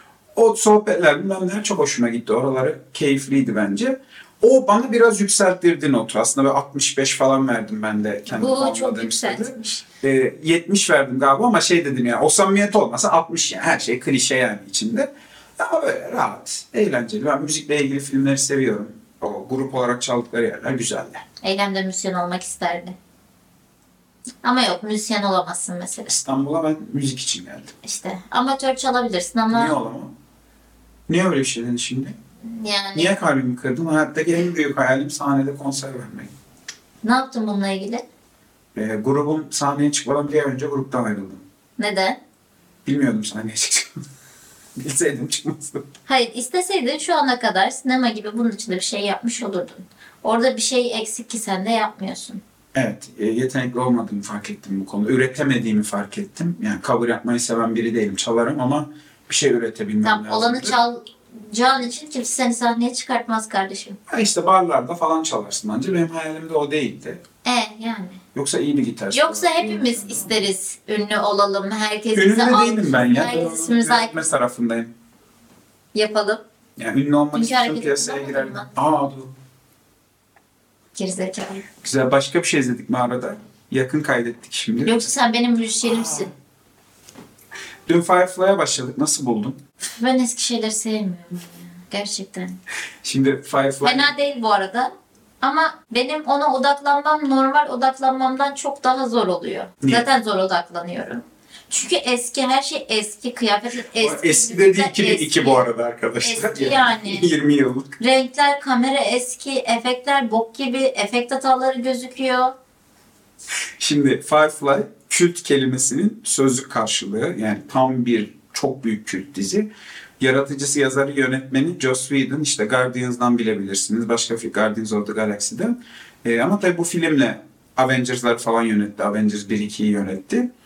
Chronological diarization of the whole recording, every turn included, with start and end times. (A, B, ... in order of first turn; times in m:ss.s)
0:00.3-0:21.2 A
0:08.3-0:09.8 B
0:21.4-0:23.0 B
0:24.4-0:26.2 B
0:26.1-0:27.7 A
0:27.8-0:29.7 B
0:29.5-0:30.1 A
0:31.1-0:32.2 A
0:32.4-0:33.2 B
0:32.9-0:36.3 A
0:37.0-0:38.0 B
0:38.7-0:41.4 A
0:41.8-0:42.2 B
0:42.8-0:44.0 A
0:44.8-0:45.9 A
0:46.1-0:52.4 B
0:52.7-1:00.8 A
1:00.0-1:04.0 B
1:04.1-1:07.2 A
1:07.4-1:08.2 B
1:08.3-1:10.5 A
1:09.1-1:14.2 B
1:12.1-1:14.9 A
1:15.9-1:16.4 B
1:16.8-1:19.3 A
1:17.3-1:18.7 B
1:20.9-1:21.6 B
1:21.8-1:25.1 A
1:24.8-1:26.3 B
1:25.8-1:26.3 A
1:27.8-1:29.6 A
1:30.0-1:32.6 B
1:33.0-1:34.1 A
1:33.8-1:45.6 B
1:44.0-1:47.9 A
1:46.2-1:47.3 B
1:48.0-1:52.5 B
1:53.8-1:59.7 A
2:00.2-2:10.5 A